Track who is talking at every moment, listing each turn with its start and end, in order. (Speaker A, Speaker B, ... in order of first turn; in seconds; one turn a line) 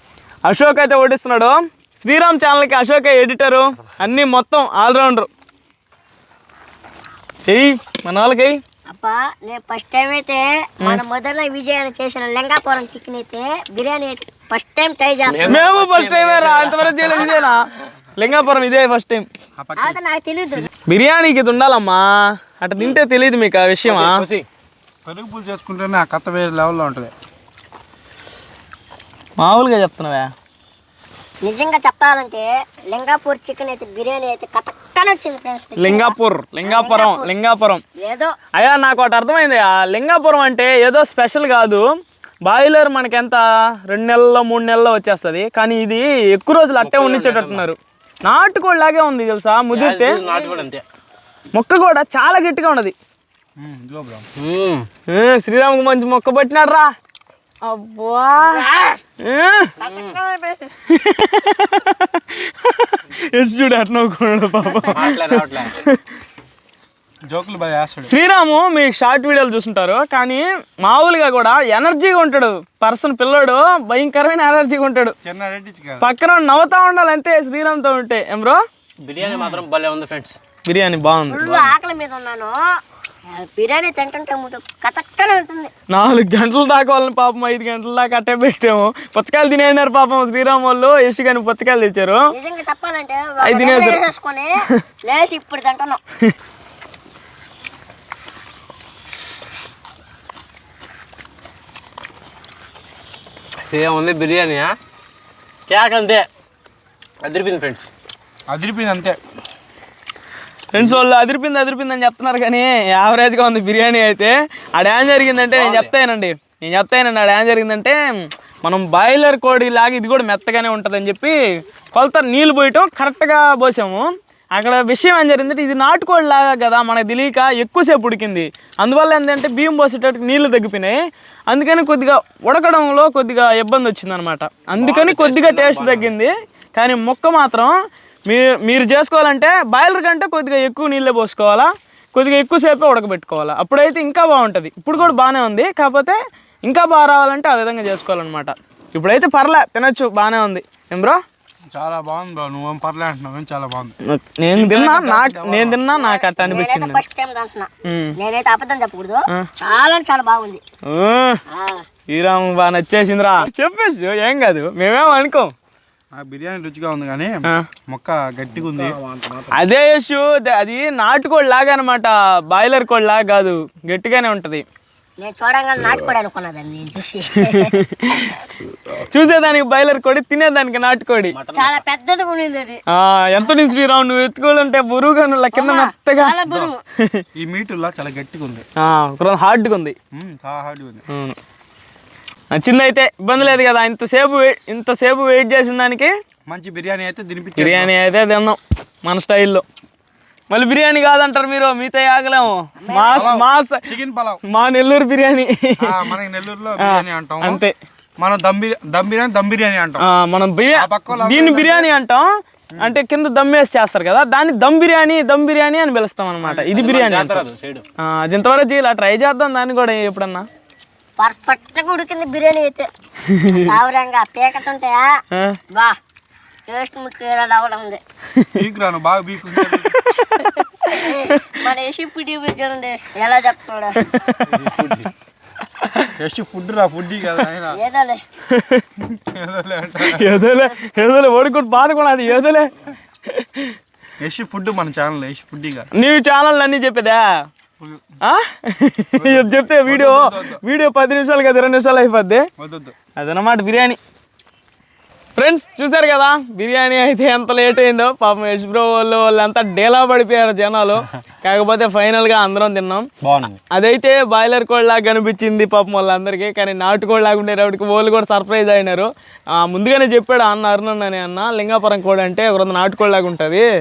Speaker A: 0.5-5.3
Speaker A: 7.5-8.6
Speaker B: 8.9-15.6
Speaker C: 15.3-17.3
Speaker A: 15.5-19.3
Speaker B: 17.2-17.4
Speaker D: 19.6-20.0
Speaker B: 19.8-20.7
Speaker A: 20.9-24.2
Speaker C: 23.9-24.5
Speaker D: 25.1-27.1
Speaker A: 29.4-30.3
Speaker B: 31.4-37.3
Speaker A: 35.8-37.8
Speaker B: 38.0-38.4
Speaker A: 38.5-50.2
Speaker C: 46.8-47.7
Speaker C: 49.7-50.8
Speaker B: 50.2-50.7
Speaker A: 51.5-52.9
Speaker D: 53.6-54.3
Speaker C: 54.4-54.9
Speaker A: 55.1-56.9
Speaker A: 57.6-58.7
Speaker A: 59.2-59.8
Speaker C: 59.8-60.2
Speaker B: 59.8-60.7
Speaker A: 60.9-66.0
Speaker C: 64.9-65.8
Speaker D: 67.3-68.1
Speaker A: 68.1-75.2
Speaker D: 75.2-76.0
Speaker A: 76.0-78.6
Speaker C: 79.0-80.4
Speaker D: 79.2-79.6
Speaker A: 80.7-81.5
Speaker B: 81.3-82.6
Speaker C: 81.4-81.7
Speaker B: 83.3-85.7
Speaker A: 85.9-92.3
Speaker B: 92.3-96.0
Speaker A: 93.4-94.0
Speaker C: 103.7-104.7
Speaker C: 105.7-106.3
Speaker C: 107.2-107.9
Speaker D: 108.5-109.2
Speaker A: 110.7-121.4
Speaker C: 115.5-115.9
Speaker A: 121.9-137.8
Speaker C: 134.8-136.1
Speaker A: 138.3-151.2
Speaker D: 151.7-153.9
Speaker A: 154.1-157.0
Speaker D: 154.5-155.8
Speaker B: 155.9-160.6
Speaker A: 157.8-158.2
Speaker A: 160.9-161.4
Speaker B: 161.5-161.9
Speaker A: 162.1-165.5
Speaker D: 166.1-169.0
Speaker C: 168.5-169.6
Speaker A: 169.5-174.6
Speaker B: 175.2-177.8
Speaker A: 177.4-178.3
Speaker A: 179.1-181.3
Speaker C: 181.3-181.8
Speaker B: 181.5-182.8
Speaker A: 182.9-186.4
Speaker B: 185.5-186.8
Speaker A: 187.0-187.2
Speaker D: 187.3-188.7
Speaker A: 188.8-190.0
Speaker D: 190.1-191.0
Speaker A: 191.1-191.4
Speaker A: 192.5-196.1
Speaker D: 196.5-197.9
Speaker A: 197.6-199.7
Speaker A: 200.5-203.9
Speaker B: 202.8-203.3
Speaker D: 203.1-204.4
Speaker A: 204.4-206.0
Speaker D: 205.8-207.6
Speaker A: 206.8-207.8
Speaker D: 208.2-210.0
Speaker A: 210.0-217.4
Speaker D: 210.7-211.9
Speaker C: 216.5-217.8
Speaker A: 218.0-220.5
Speaker B: 221.2-222.9
Speaker A: 223.3-223.7
Speaker B: 223.5-226.0
Speaker A: 225.3-225.6
Speaker B: 226.7-228.0
Speaker D: 228.6-230.0
Speaker A: 229.8-231.5
Speaker B: 230.4-234.4
Speaker A: 234.1-234.4
Speaker D: 234.4-235.1
Speaker A: 235.8-236.1
Speaker D: 236.2-237.8
Speaker B: 237.7-238.2
Speaker A: 238.5-238.9
Speaker D: 239.0-240.3
Speaker A: 240.0-242.7
Speaker A: 243.3-243.7
Speaker D: 244.2-245.9
Speaker A: 245.9-247.5
Speaker D: 247.8-248.2
Speaker A: 248.2-252.5
Speaker D: 249.2-250.6
Speaker D: 252.6-252.9
Speaker A: 253.2-254.0
Speaker A: 255.4-263.1
Speaker C: 263.2-263.6
Speaker A: 263.7-273.7